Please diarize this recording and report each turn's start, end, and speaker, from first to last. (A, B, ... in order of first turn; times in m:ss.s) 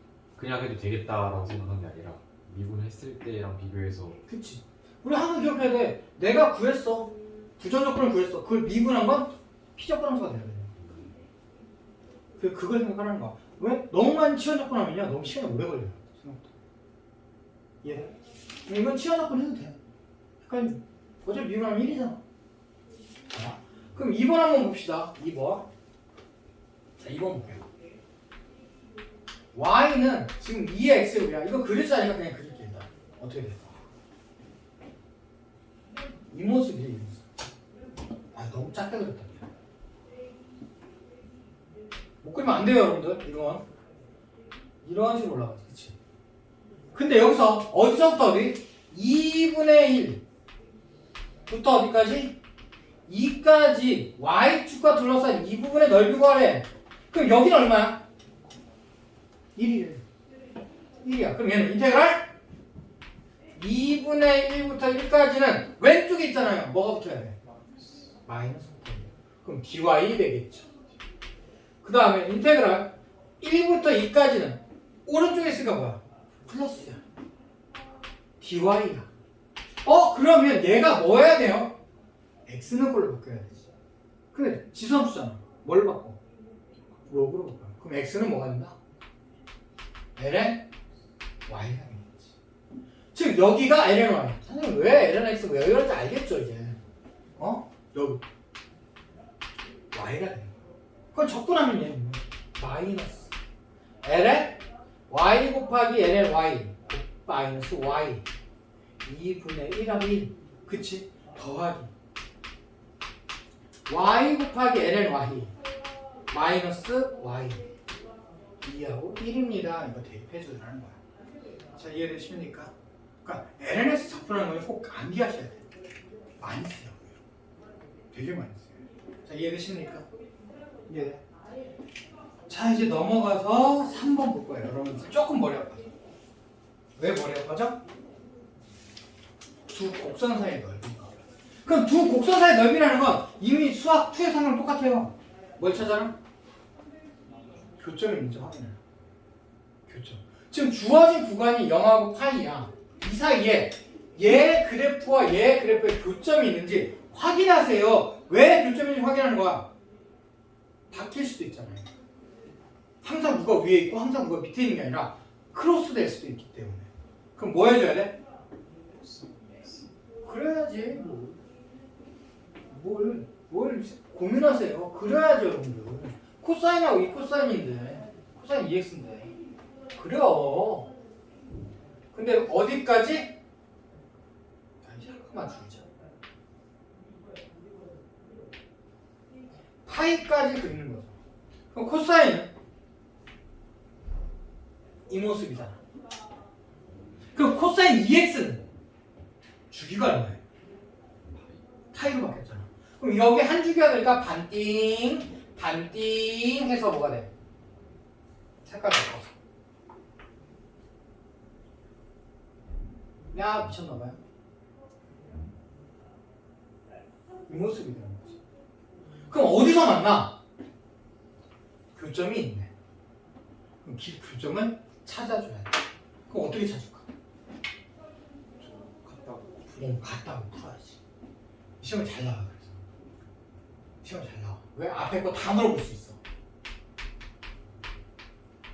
0:00.4-0:04.2 A
0:04.3-0:10.8 B
0:12.4-0:16.5 B
0:17.8-0:18.1 B
0:18.7-0:19.8 B
0:20.4-0:22.2 B
0:23.3-0:25.7 B
0:27.0-0:27.6 B
0:29.5-0:33.8 B
0:36.3-0:37.2 B
0:38.3-0:39.5 B
0:42.2-0:43.6 B
0:44.8-0:46.0 B
0:46.9-0:50.2 B
0:51.5-0:52.4 B
0:53.1-0:58.0 B
0:59.6-1:00.0 B
1:01.0-1:02.3 B
1:03.6-1:07.4 B
1:07.4-1:08.2 C
1:08.3-1:10.7 B
1:11.8-1:17.0 B
1:18.4-1:19.1 B
1:19.8-1:21.7 B
1:22.5-1:23.7 B
1:24.3-1:26.2 B
1:27.1-1:28.8 B
1:30.2-1:30.6 B
1:31.5-1:32.3 B
1:33.1-1:36.8 B
1:37.4-1:38.2 B
1:39.9-1:40.5 B
1:41.1-1:43.3 B
1:44.0-1:48.3 B
1:49.0-1:51.9 B
1:53.9-1:55.5 B
1:56.3-1:57.7 B
1:58.6-2:01.0 B
2:01.8-2:02.7 B
2:03.2-2:05.6 B
2:06.4-2:07.2 B
2:08.1-2:10.1 B
2:10.9-2:11.2 B
2:12.5-2:15.8 B
2:17.0-2:17.8 B
2:19.7-2:26.2 B
2:27.3-2:27.8 C
2:27.8-2:28.8 B
2:29.9-2:39.7 B
2:40.9-2:41.9 B
2:43.0-2:48.2 B
2:48.9-2:49.9 C
2:50.2-2:51.4 B
2:52.7-2:59.3 B
3:00.0-3:00.9 B
3:02.1-3:03.3 B
3:04.8-3:05.8 B
3:09.8-3:11.2 B
3:11.7-3:12.5 B
3:15.1-3:15.8 B
3:17.4-3:18.6 B
3:19.7-3:20.4 B
3:21.9-3:27.3 B
3:28.6-3:29.3 B
3:33.3-3:34.2 B
3:37.5-3:38.4 B
3:39.3-3:40.4 B
3:41.9-3:42.7 B
3:43.8-3:45.8 B
3:46.3-3:47.0 B
3:48.6-3:50.1 C
3:49.8-3:51.0 B
3:51.8-3:52.7 B
3:54.0-3:56.2 B